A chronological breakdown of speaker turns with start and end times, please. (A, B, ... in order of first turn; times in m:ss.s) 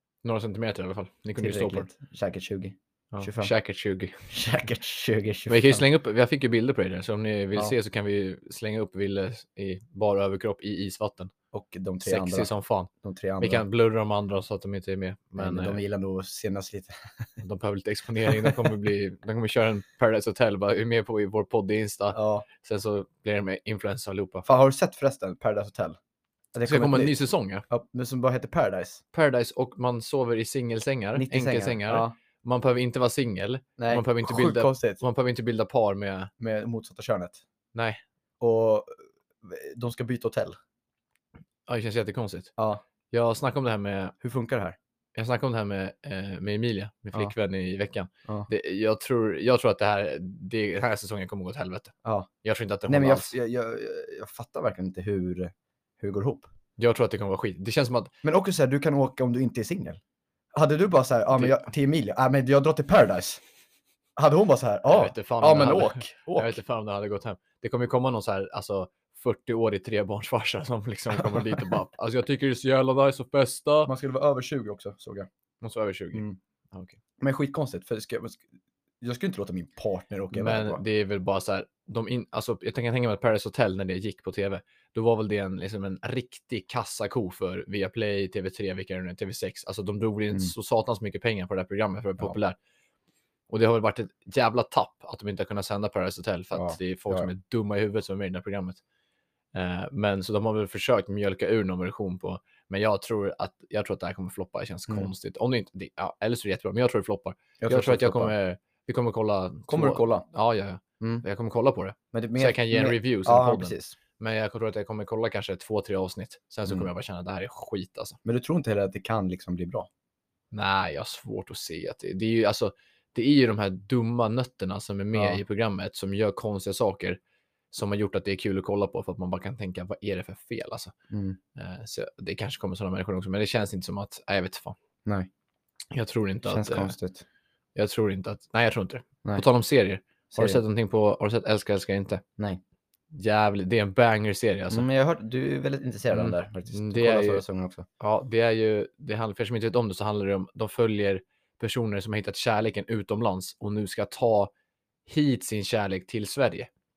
0:00.2-0:01.9 A
0:01.4-0:03.5 B
0:03.1-0:04.3 A
0:04.3-0:05.8 B
0:05.5-0:11.3 A
0:11.5-0:12.5 B
0:12.0-0:15.8 A
0:13.0-0:13.6 B
0:15.4-0:17.3 B
0:17.4-0:24.5 A
0:18.3-0:18.6 B
0:22.1-0:22.5 B
0:24.5-0:26.0 B
0:26.5-0:27.2 B
0:26.6-0:27.6 A
0:27.7-0:29.0 B
0:29.1-0:36.3 A
0:31.2-0:32.2 B
0:33.8-0:35.0 B
0:36.4-0:37.4 B
0:37.8-0:38.0 A
0:38.4-0:40.6 B
0:41.7-0:42.5 A
0:42.6-0:42.8 B
0:43.1-0:44.2 A
0:44.2-0:44.8 B
0:45.2-0:53.3 A
0:52.0-0:52.3 B
0:52.9-0:56.5 B
0:56.8-0:58.1 A
0:58.2-1:00.0 B
1:00.5-1:03.4 B
1:01.3-1:01.6 A
1:04.2-1:06.6 B
1:04.9-1:13.9 A
1:11.2-1:11.5 B
1:13.9-1:15.3 B
1:15.6-1:17.0 A
1:16.1-1:16.4 B
1:17.2-1:18.4 B
1:19.0-1:20.8 B
1:20.3-1:32.6 A
1:33.5-1:38.8 A
1:36.5-1:37.3 B
1:39.5-1:58.2 A
1:47.6-1:48.3 B
1:49.7-1:50.3 B
1:51.0-1:51.2 B
1:52.1-1:54.0 B
1:58.2-1:59.9 B
2:00.5-2:07.2 A
2:05.1-2:05.4 B
2:07.7-2:10.9 A
2:11.1-2:11.4 B
2:11.6-2:14.8 A
2:15.9-2:17.0 A
2:16.4-2:17.2 B
2:17.8-2:22.2 A
2:20.3-2:20.6 B
2:23.1-2:24.9 A
2:24.7-2:27.9 B
2:26.1-2:27.4 A
2:28.0-2:34.5 A
2:35.1-2:36.7 A